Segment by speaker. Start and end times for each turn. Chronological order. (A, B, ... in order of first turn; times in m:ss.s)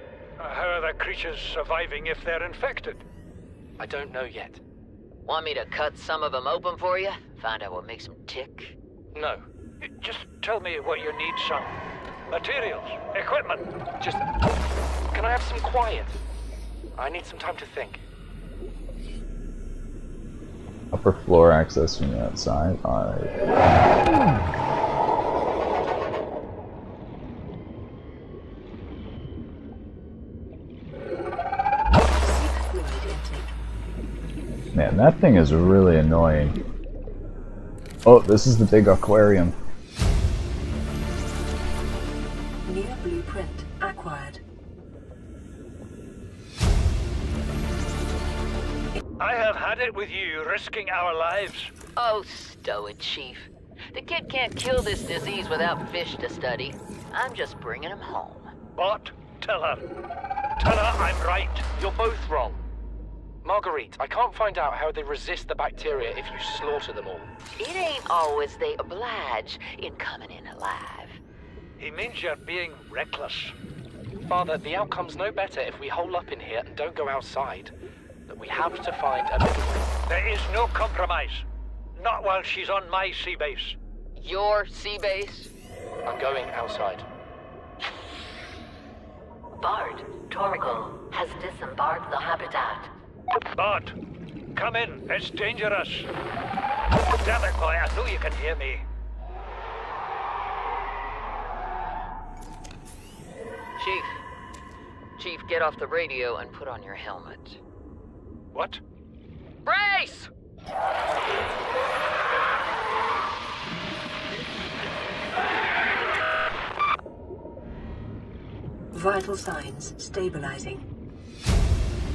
0:00.4-0:03.0 A
0:03.8-0:04.6 B
0:05.2-0:08.8 C
0:09.1-0:09.4 B
0:09.8-0:13.7 A
0:15.1-0:16.2 B
0:16.9-0:18.0 B
0:20.9-0:23.4 D
0:32.2-0:33.5 E
0:34.7-0:36.6 D
0:38.0-0:39.6 D
0:42.6-0:44.4 E
0:49.2-0:51.7 A
0:52.0-0:58.5 C
0:58.7-0:59.8 A
1:00.6-1:01.7 A
1:01.7-1:02.6 B
1:03.4-1:07.3 B
1:07.6-1:11.2 C
1:11.8-1:13.5 A
1:14.3-1:17.7 B
1:18.3-1:19.9 B
1:20.0-1:21.4 A
1:22.0-1:23.8 A
1:24.2-1:25.5 C
1:26.0-1:27.0 B
1:29.6-1:32.9 F
1:33.5-1:33.9 A
1:34.5-1:36.1 A
1:37.1-1:38.8 A
1:43.8-1:44.2 C
1:45.2-1:47.6 C
1:48.5-1:48.8 A
1:49.6-1:50.3 C
1:58.9-2:00.8 E